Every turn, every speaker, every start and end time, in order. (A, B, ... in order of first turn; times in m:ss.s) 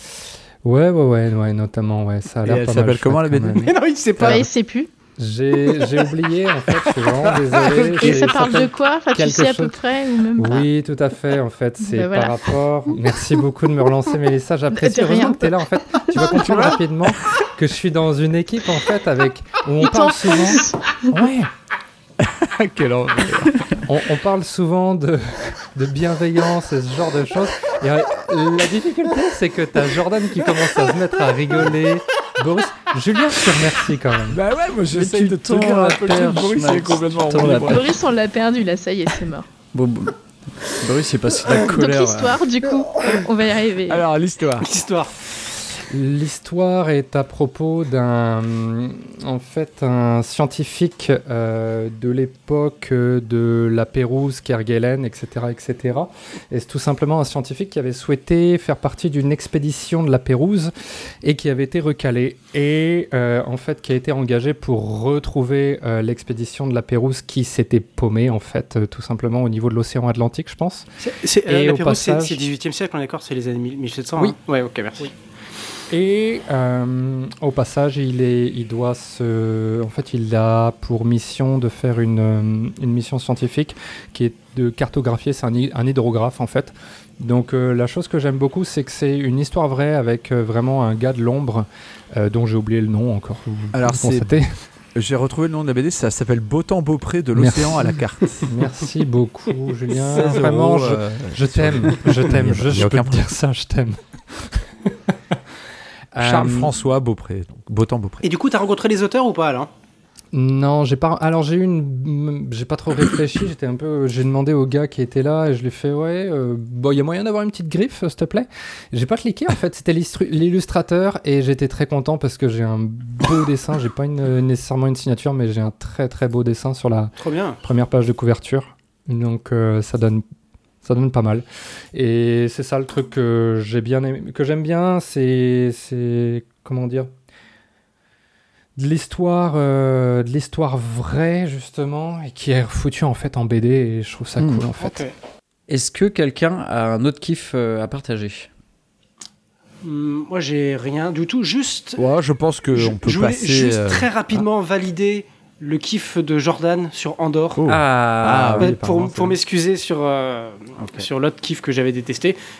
0:00.6-0:04.4 A
0:02.4-0:03.7 B
0:03.6-0:04.5 C
0:04.2-0:04.9 D
0:05.2-0:09.8 A
0:06.9-0:08.2 B
0:08.0-0:10.7 D
0:10.4-0:21.5 A
0:11.8-0:12.4 D
0:14.7-0:16.2 D
0:16.2-0:16.8 B
0:19.8-0:21.1 D
0:22.2-0:23.7 B
0:23.8-0:34.4 A
0:34.3-0:37.9 B
0:34.9-0:37.9 E
0:37.6-0:39.5 D
0:39.7-0:42.4 E
0:41.5-0:44.0 D
0:43.9-0:44.7 B
0:44.6-0:45.1 C
0:45.9-1:10.9 A
1:11.0-1:15.1 C
1:11.5-1:12.4 A
1:15.9-1:34.6 A
1:33.7-1:34.4 B
1:35.0-1:38.5 B
1:37.4-1:45.1 A
1:39.9-1:43.3 B
1:46.1-1:46.7 A
1:46.2-1:48.2 B
1:48.2-1:49.7 C
1:50.3-2:10.2 A
2:07.2-2:07.6 C
2:10.8-2:17.1 A
2:18.8-2:25.0 A
2:24.4-2:24.6 B
2:24.8-2:25.1 C
2:25.7-2:28.5 E
2:29.8-2:32.0 C
2:32.0-2:34.4 B
2:32.7-2:37.6 C
2:37.5-2:39.3 B
2:37.7-2:38.7 E
2:38.6-2:42.4 C
2:40.8-2:41.1 E